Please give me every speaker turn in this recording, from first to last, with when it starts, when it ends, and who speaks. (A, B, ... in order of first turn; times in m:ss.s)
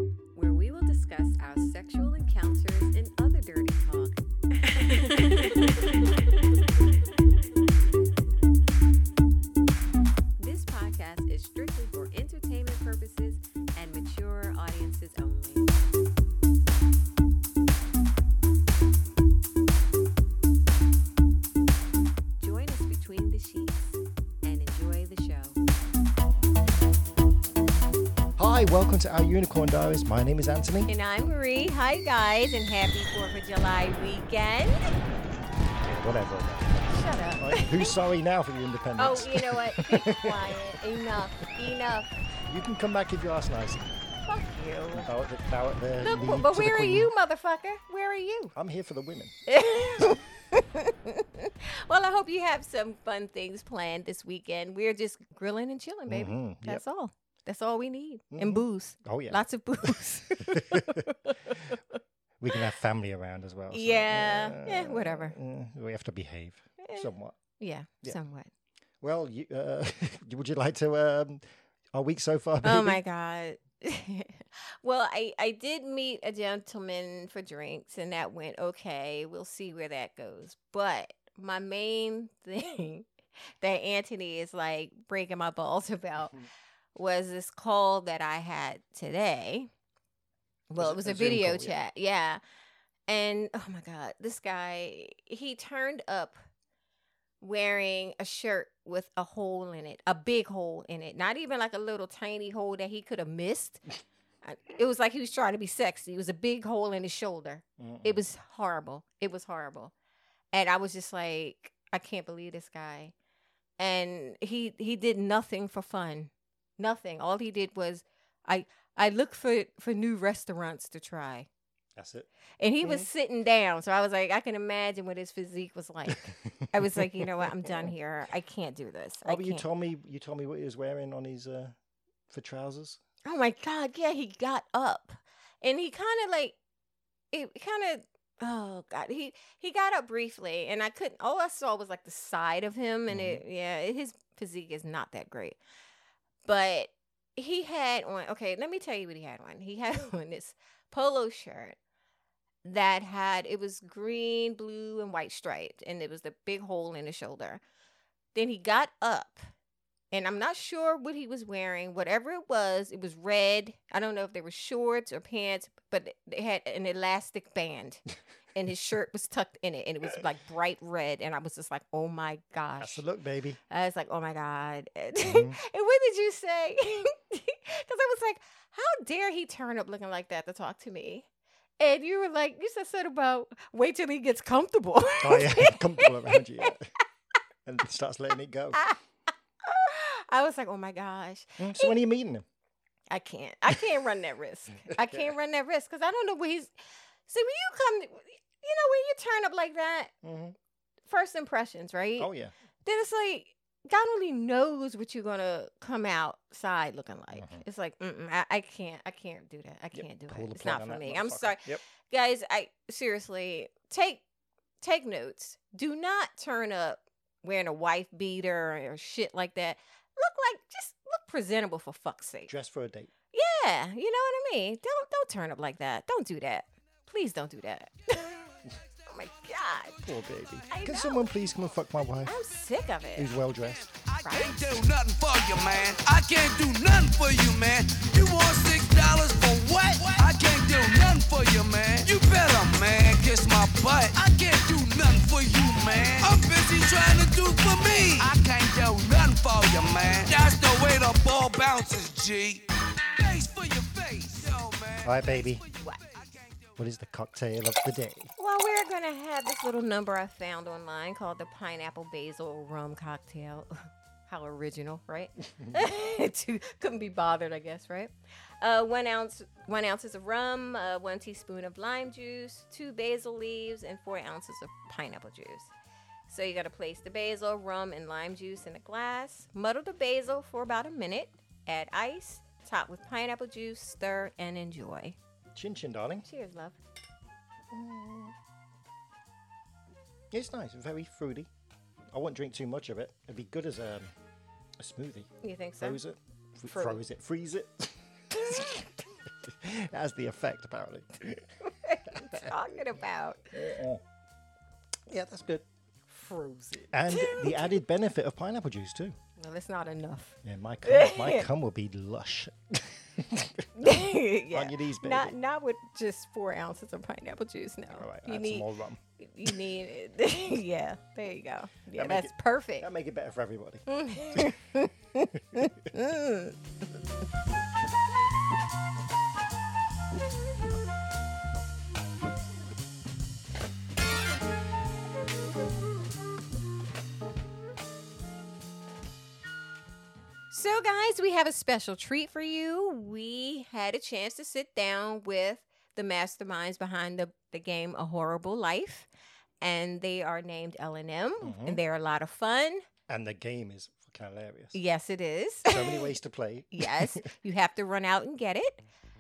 0:00.3-0:05.9 A
0:10.4-0:15.7 A
0:22.4-0:25.6 A
0:28.4-0:30.9 B
0:30.9-0:34.8 A
0:35.8-0:40.7 B
0:36.9-0:38.0 A
0:39.0-0:42.1 A
0:42.5-0:43.8 B
0:44.2-0:45.1 A
0:45.0-0:47.1 B
0:46.0-0:48.6 A
0:48.6-0:49.3 B
0:49.5-1:01.8 A
0:56.1-0:56.8 B
0:58.3-0:59.4 B
1:00.4-1:01.0 B
1:02.4-1:07.4 B
1:03.7-1:05.4 A
1:06.8-1:08.5 A
1:09.0-1:13.0 B
1:12.6-1:26.4 A
1:27.0-1:29.7 A
1:30.7-1:32.4 A
1:30.8-1:31.8 B
1:33.1-1:36.4 A
1:37.4-1:43.8 A
1:44.4-1:49.9 A
1:47.8-1:48.2 B
1:50.5-1:53.1 A
1:53.8-2:01.5 A
2:02.0-2:02.3 B
2:02.6-2:09.6 A
2:02.8-2:03.1 B
2:07.7-2:07.9 B
2:09.2-2:11.8 B
2:12.3-2:13.0 B
2:13.2-2:16.6 A
2:17.3-2:25.6 A
2:23.1-2:23.4 B
2:26.4-2:31.8 A
2:32.6-2:37.6 A
2:38.3-2:39.4 A
2:40.1-2:48.0 A
2:48.6-2:53.0 A
2:52.8-2:53.6 B
2:53.7-3:01.3 A
2:55.3-2:55.6 B
3:01.8-3:06.7 A
3:05.2-3:06.9 B
3:07.7-3:08.8 B
3:08.7-3:09.0 A
3:09.6-3:12.0 A
3:11.6-3:12.4 B
3:13.1-3:16.7 A
3:17.3-3:20.1 A
3:20.2-3:20.6 B
3:21.1-3:22.3 A
3:22.2-3:22.5 B
3:22.8-3:34.2 A
3:27.3-3:27.6 B
3:29.9-3:31.8 B
3:34.8-3:42.5 A
3:42.5-3:43.1 B
3:43.3-3:50.0 A
3:50.0-3:52.4 B
3:50.7-3:51.3 A
3:52.2-3:53.4 A
3:53.2-3:53.9 B
3:53.7-4:12.6 C
3:54.2-3:54.8 A
4:13.2-4:16.8 C
4:15.0-4:15.6 B
4:16.8-4:18.3 B
4:18.4-4:35.7 A
4:36.3-4:45.2 A
4:45.6-4:46.3 B
4:46.2-4:46.8 A
4:47.7-4:48.3 B
4:50.3-4:51.5 B
4:52.1-4:54.1 B
4:54.8-5:01.5 B
4:55.4-4:56.0 A
4:56.7-4:57.0 A
5:01.8-5:03.5 A
5:02.1-5:02.7 B
5:03.5-5:04.0 B
5:05.1-5:05.6 B
5:06.1-5:07.7 A
5:06.9-5:09.2 B
5:09.4-5:11.5 A
5:10.4-5:13.9 B
5:13.8-5:18.6 A
5:14.5-5:15.4 B
5:17.9-5:19.6 B
5:19.2-5:22.9 A
5:22.0-5:24.6 B
5:23.9-5:26.6 A
5:40.5-5:49.1 A
5:49.6-5:52.9 A
5:51.4-5:51.8 B
5:53.1-5:54.8 B
5:54.7-5:56.1 A
5:55.6-5:57.2 B
5:56.7-5:58.8 A